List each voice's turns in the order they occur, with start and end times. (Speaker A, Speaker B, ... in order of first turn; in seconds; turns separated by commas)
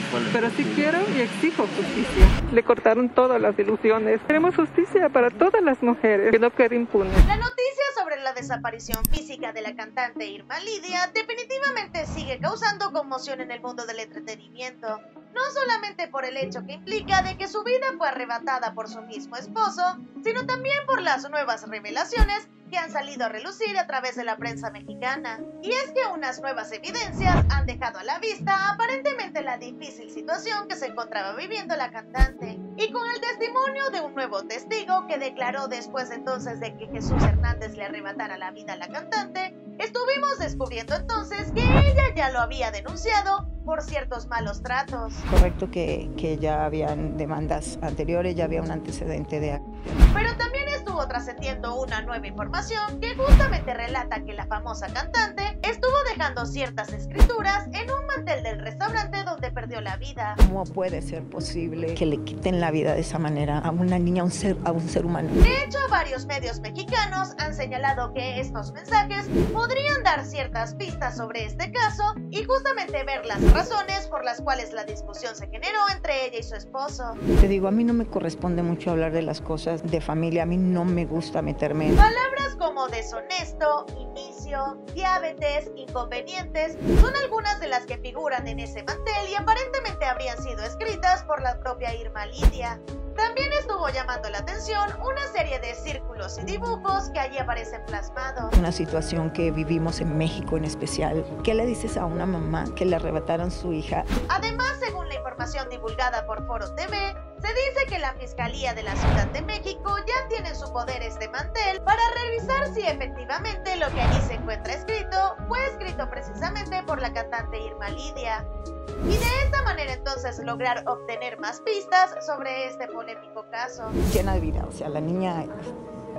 Speaker A: 0.3-7.2, Speaker B: 7.2-45.2, Speaker C: 45.3-49.6, Speaker B: 50.1-60.4, Speaker C: 60.4-65.4, Speaker B: 65.4-77.2, Speaker C: 77.4-82.0, Speaker B: 82.0-98.5, Speaker C: 98.5-104.1, Speaker B: 104.3-118.5, Speaker B: 119.1-124.0, Speaker C: 124.0-125.7